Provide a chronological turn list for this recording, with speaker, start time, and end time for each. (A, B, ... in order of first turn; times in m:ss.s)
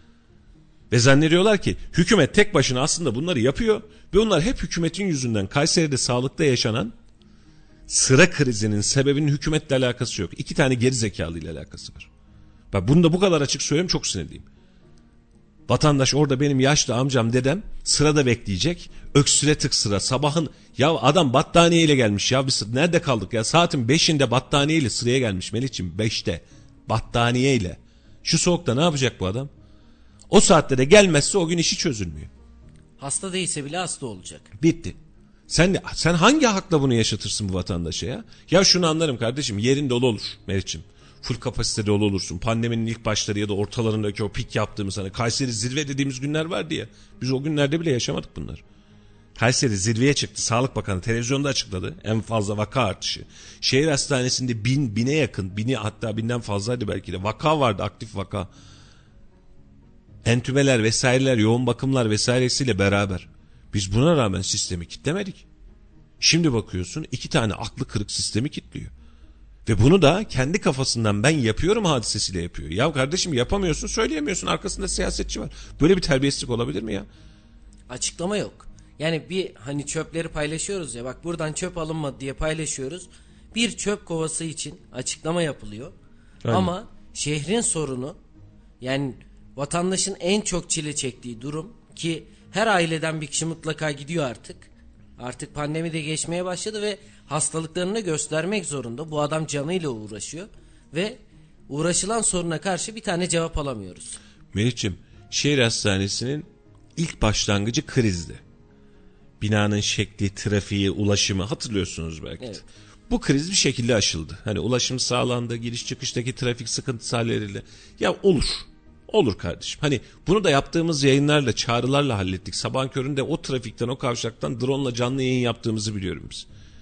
0:00.9-0:06.9 A
0:07.9-0:12.1 A
0:12.7-0:14.4 A
0:15.7-0:29.5 A
0:30.3-0:32.3 A
0:33.0-0:34.5 B
0:34.6-0:35.0 A
0:35.5-0:48.6 A
0:49.4-0:58.5 A
1:00.2-1:05.4 A
1:06.2-1:08.9 A
1:09.6-1:17.1 A
1:17.9-1:25.9 B
1:26.4-1:26.7 A
1:26.5-1:28.2 B
1:28.8-1:41.2 B
1:41.7-1:44.2 B
1:44.5-1:48.4 A
1:49.4-2:06.5 A